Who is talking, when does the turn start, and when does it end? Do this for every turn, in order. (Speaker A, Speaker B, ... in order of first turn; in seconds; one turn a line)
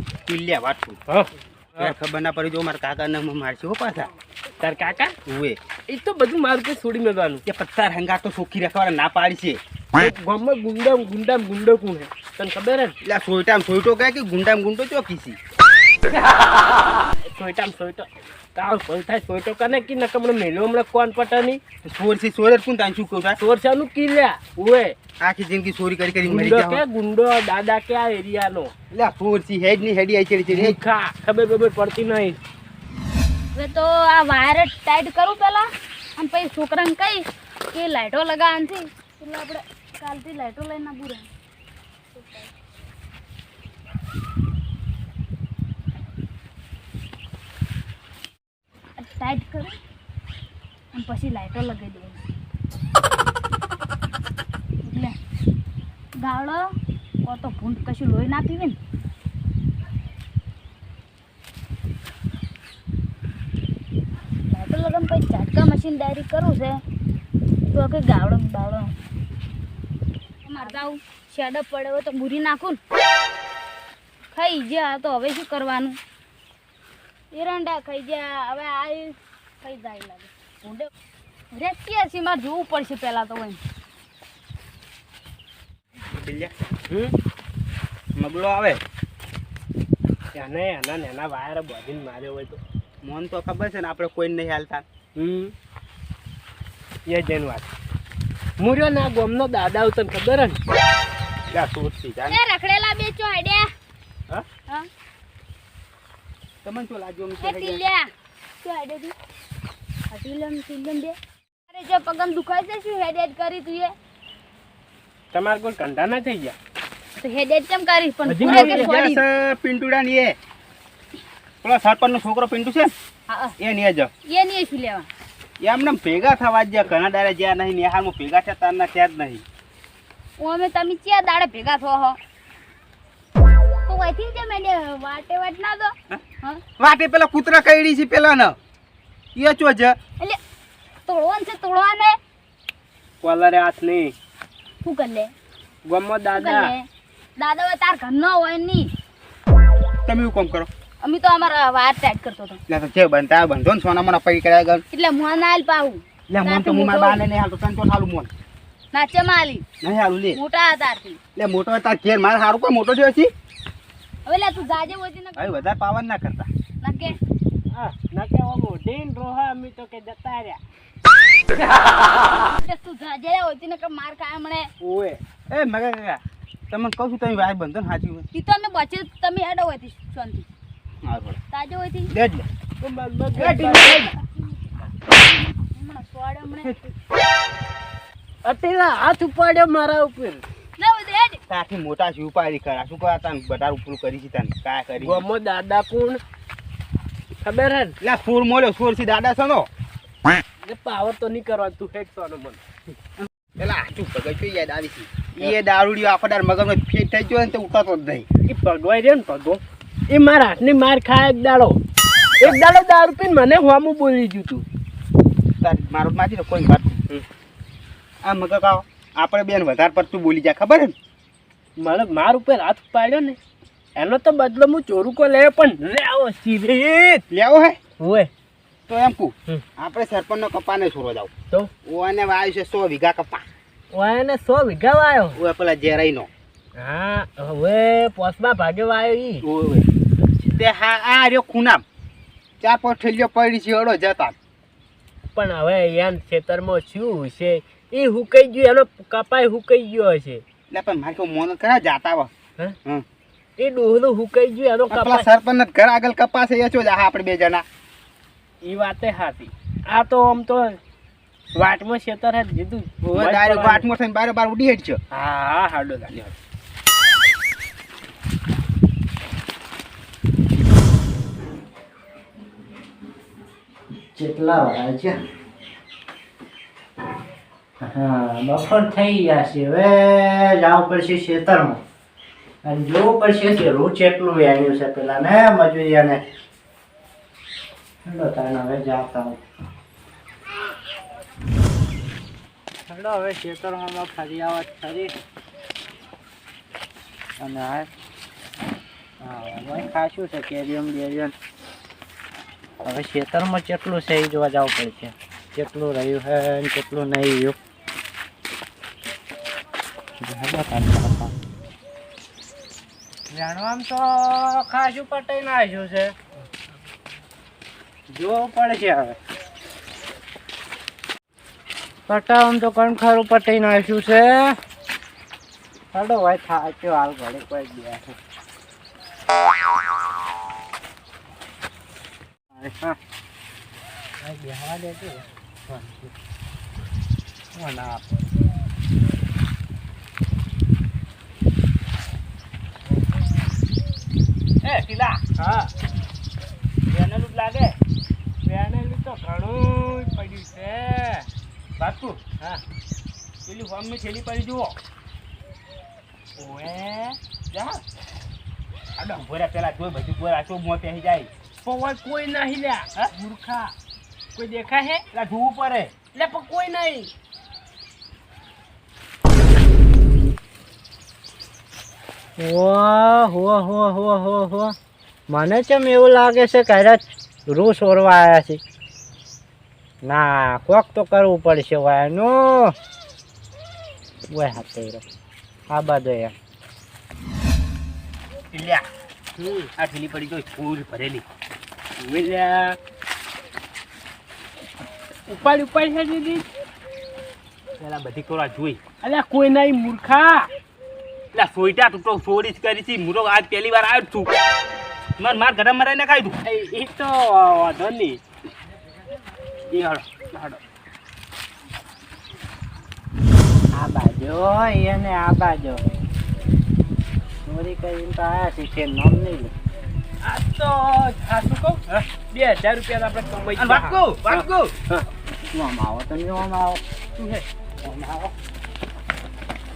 Speaker A: 0.2-1.0
Speaker B: 1.1-1.9
Speaker A: 1.8-4.1
Speaker B: 4.6-5.1
Speaker A: 5.3-5.6
Speaker B: 5.9-7.4
Speaker A: 7.5-9.6
Speaker B: 9.9-12.9
Speaker A: 13.0-15.4
Speaker B: 17.3-21.6
Speaker A: 21.8-23.4
Speaker B: 23.4-24.9
Speaker A: 25.2-26.8
Speaker B: 26.2-28.7
Speaker A: 28.9-30.8
Speaker B: 30.5-32.4
Speaker C: 33.5-41.3
Speaker C: 42.1-42.5
Speaker C: 49.0-49.8
Speaker C: 50.9-52.2
Speaker C: 54.8-55.1
Speaker C: 56.2-56.7
Speaker C: 57.2-58.8
Speaker C: 64.5-66.8
Speaker C: 67.7-68.9
Speaker C: 70.4-72.8
Speaker C: 74.3-76.0
Speaker C: 77.3-80.9
Speaker C: 81.5-83.6
Speaker A: 86.0-86.5
Speaker A: 88.2-88.8
Speaker B: 90.3-92.6
Speaker A: 93.0-94.8
Speaker B: 95.2-95.5
Speaker B: 97.1-97.7
Speaker B: 98.6-100.6
Speaker A: 101.5-102.4
Speaker C: 102.3-103.7
Speaker A: 106.6-107.8
Speaker C: 107.4-108.1
Speaker C: 108.6-109.1
Speaker C: 110.1-111.2
Speaker C: 111.7-113.9
Speaker B: 115.3-116.5
Speaker C: 117.2-119.2
Speaker B: 118.3-119.0
Speaker A: 118.3-120.4
Speaker A: 121.6-122.9
Speaker C: 123.3-123.5
Speaker A: 123.6-124.1
Speaker C: 124.2-125.1
Speaker A: 125.6-129.4
Speaker C: 130.4-132.2
Speaker C: 133.9-136.6
Speaker A: 136.8-138.6
Speaker A: 139.3-140.0
Speaker C: 141.1-142.2
Speaker B: 143.2-144.1
Speaker C: 144.8-145.3
Speaker B: 145.8-146.7
Speaker C: 146.3-148.9
Speaker A: 150.1-150.7
Speaker C: 151.0-152.6
Speaker A: 152.7-154.8
Speaker C: 154.9-157.2
Speaker A: 156.3-158.3
Speaker C: 158.9-159.7
Speaker A: 159.8-160.4
Speaker C: 160.3-161.2
Speaker A: 161.3-163.3
Speaker C: 164.2-165.6
Speaker A: 165.4-166.5
Speaker C: 166.8-167.2
Speaker B: 167.7-170.6
Speaker C: 172.6-174.7
Speaker B: 174.8-175.2
Speaker A: 175.5-178.3
Speaker C: 178.3-180.5
Speaker A: 181.0-181.4
Speaker C: 181.5-182.1
Speaker A: 182.1-182.4
Speaker B: 182.8-184.1
Speaker A: 183.4-183.7
Speaker C: 183.4-186.7
Speaker A: 186.6-186.9
Speaker B: 188.4-190.4
Speaker C: 190.8-191.4
Speaker A: 191.5-195.2
Speaker B: 194.9-196.2
Speaker B: 197.4-197.9
Speaker A: 198.0-199.7
Speaker B: 200.6-202.6
Speaker A: 203.2-208.2
Speaker B: 208.5-211.8
Speaker B: 212.4-214.6
Speaker A: 215.6-217.0
Speaker A: 218.2-220.9
Speaker B: 221.8-223.4
Speaker B: 223.9-227.2
Speaker A: 227.3-227.8
Speaker B: 228.0-228.3
Speaker A: 228.9-231.3
Speaker A: 231.8-233.4
Speaker B: 233.9-235.4
Speaker A: 235.3-236.3
Speaker B: 236.8-239.4
Speaker A: 239.4-239.8
Speaker A: 240.4-241.8
Speaker A: 242.6-244.3
Speaker B: 245.3-250.4
Speaker A: 250.7-252.3
Speaker B: 253.6-255.3
Speaker A: 254.9-257.6
Speaker B: 258.6-260.8
Speaker B: 261.5-263.9
Speaker A: 263.0-265.0
Speaker B: 265.1-266.3
Speaker D: 274.1-275.2
Speaker D: 277.8-281.8
Speaker D: 282.6-286.2
Speaker D: 288.0-289.4
Speaker D: 292.9-295.1
Speaker D: 297.4-297.9
Speaker D: 299.2-301.3
Speaker D: 302.8-307.6
Speaker D: 310.2-311.3
Speaker D: 313.3-316.1
Speaker D: 318.1-319.2
Speaker D: 322.1-324.6
Speaker D: 325.9-328.1
Speaker D: 332.5-333.0
Speaker D: 334.2-336.1
Speaker D: 337.5-338.0
Speaker A: 344.6-345.2
Speaker B: 345.4-345.7
Speaker A: 346.9-347.8
Speaker B: 348.4-351.3
Speaker A: 351.8-352.2
Speaker A: 353.4-354.8
Speaker B: 356.4-357.2
Speaker A: 357.5-357.8
Speaker A: 359.1-361.3
Speaker B: 361.6-363.7
Speaker B: 364.4-365.0
Speaker A: 365.1-365.9
Speaker B: 366.1-367.1
Speaker D: 372.4-374.8
Speaker D: 375.3-378.6
Speaker D: 380.0-382.7
Speaker D: 384.3-385.0
Speaker D: 385.7-386.3
Speaker A: 388.5-388.8
Speaker B: 389.4-389.7
Speaker A: 389.8-391.2
Speaker B: 392.0-392.8
Speaker B: 395.3-396.4
Speaker A: 397.8-398.8
Speaker B: 399.0-400.5
Speaker A: 401.3-404.3
Speaker A: 405.2-406.3
Speaker B: 406.4-408.2
Speaker A: 409.7-410.2
Speaker B: 409.8-410.6
Speaker D: 413.7-415.9
Speaker D: 417.4-419.5
Speaker B: 420.2-425.1
Speaker A: 423.6-424.7
Speaker D: 425.5-426.8
Speaker D: 427.8-428.3